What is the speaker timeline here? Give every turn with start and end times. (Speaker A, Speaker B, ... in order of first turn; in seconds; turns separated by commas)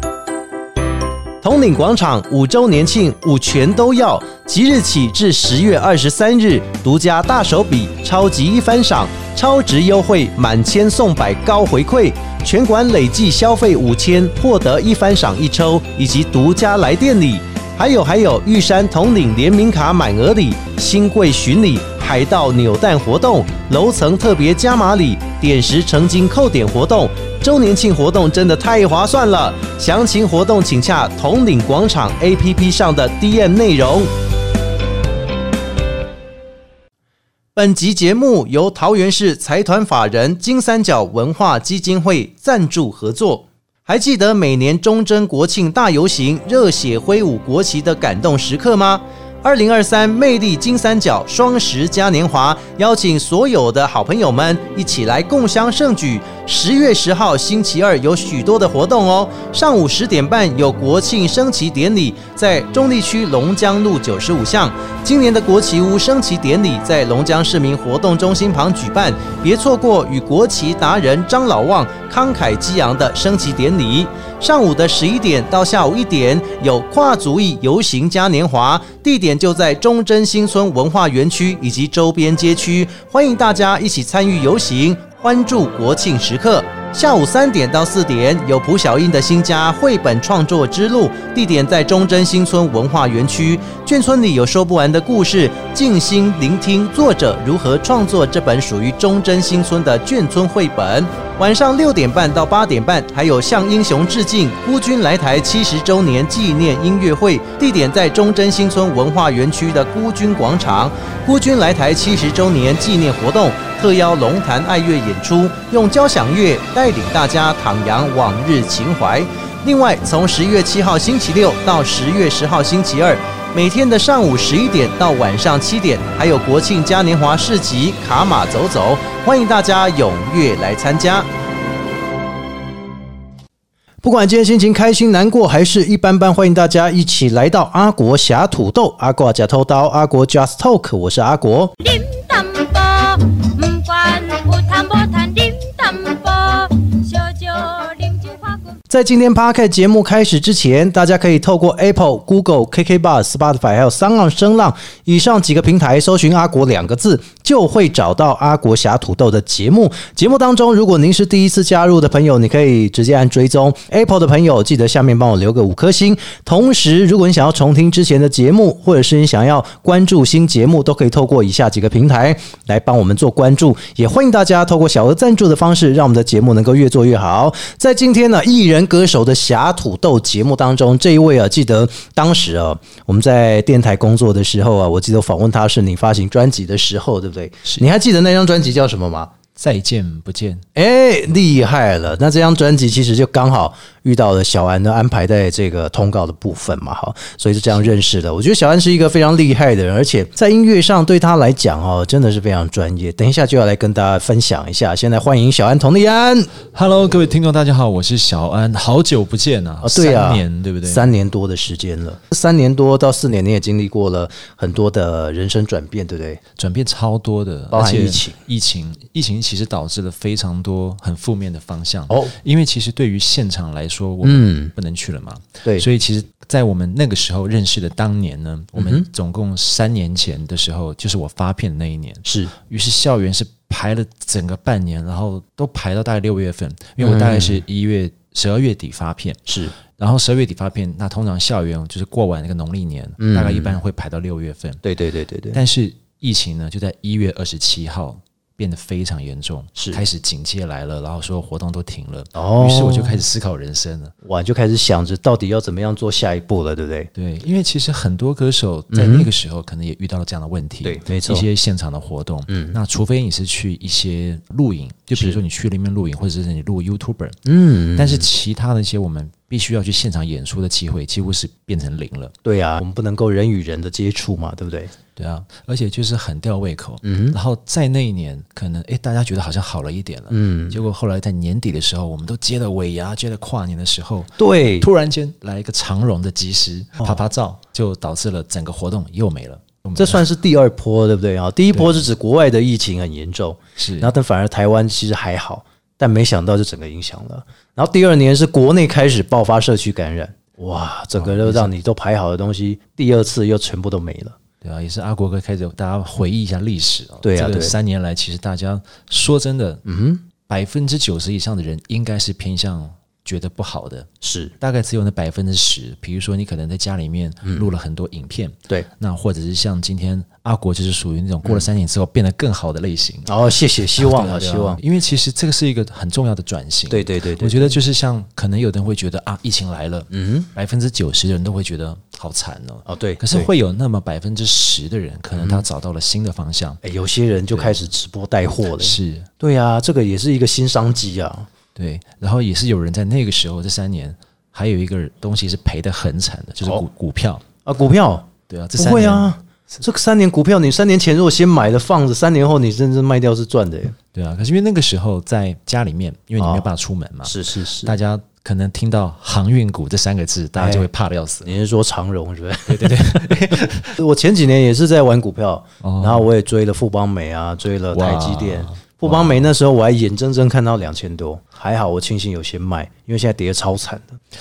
Speaker A: 1.4-34.1, Speaker A: 37.6-131.3, Speaker A: 134.0-141.8, Speaker B: 141.8-148.8, Speaker A: 148.9-189.3, Speaker C: 189.6-190.7, Speaker A: 190.8-206.6, Speaker C: 206.7-211.1, Speaker A: 209.8-216.4, Speaker C: 216.6-244.8, Speaker A: 217.7-218.4, Speaker A: 224.2-224.7, Speaker A: 228.8-229.1, Speaker A: 232.3-232.5, Speaker A: 237.0-237.6, Speaker A: 239.5-239.7, Speaker A: 243.2-243.8, Speaker A: 244.8-245.6, Speaker C: 245.5-254.1, Speaker A: 249.8-250.0, Speaker A: 252.3-253.2, Speaker A: 254.2-257.1, Speaker C: 257.1-272.4, Speaker A: 258.9-259.3, Speaker A: 260.8-261.5, Speaker A: 262.5-262.8, Speaker A: 267.4-268.3, Speaker A: 272.4-274.9, Speaker C: 275.2-290.3, Speaker A: 277.0-277.4, Speaker A: 280.3-280.8, Speaker A: 284.4-284.9, Speaker A: 290.0-304.4, Speaker C: 291.7-292.1, Speaker C: 293.8-294.1, Speaker C: 301.2-301.7, Speaker C: 304.6-309.8, Speaker A: 307.2-307.8, Speaker A: 309.9-310.2, Speaker C: 310.5-314.1, Speaker A: 314.2-314.5, Speaker C: 314.6-323.3, Speaker A: 323.3-324.8, Speaker C: 323.9-336.8, Speaker A: 326.9-327.8, Speaker A: 330.1-330.5, Speaker A: 332.9-333.5, Speaker A: 335.4-335.6, Speaker A: 336.8-341.5, Speaker C: 337.5-337.8, Speaker C: 338.8-339.3, Speaker C: 341.8-347.4, Speaker A: 347.6-354.0, Speaker C: 348.5-349.4, Speaker C: 354.1-361.5, Speaker A: 356.4-356.6, Speaker A: 357.2-357.9, Speaker A: 360.6-360.9, Speaker A: 361.4-374.2, Speaker C: 362.7-364.0, Speaker C: 365.8-366.3, Speaker C: 367.9-369.5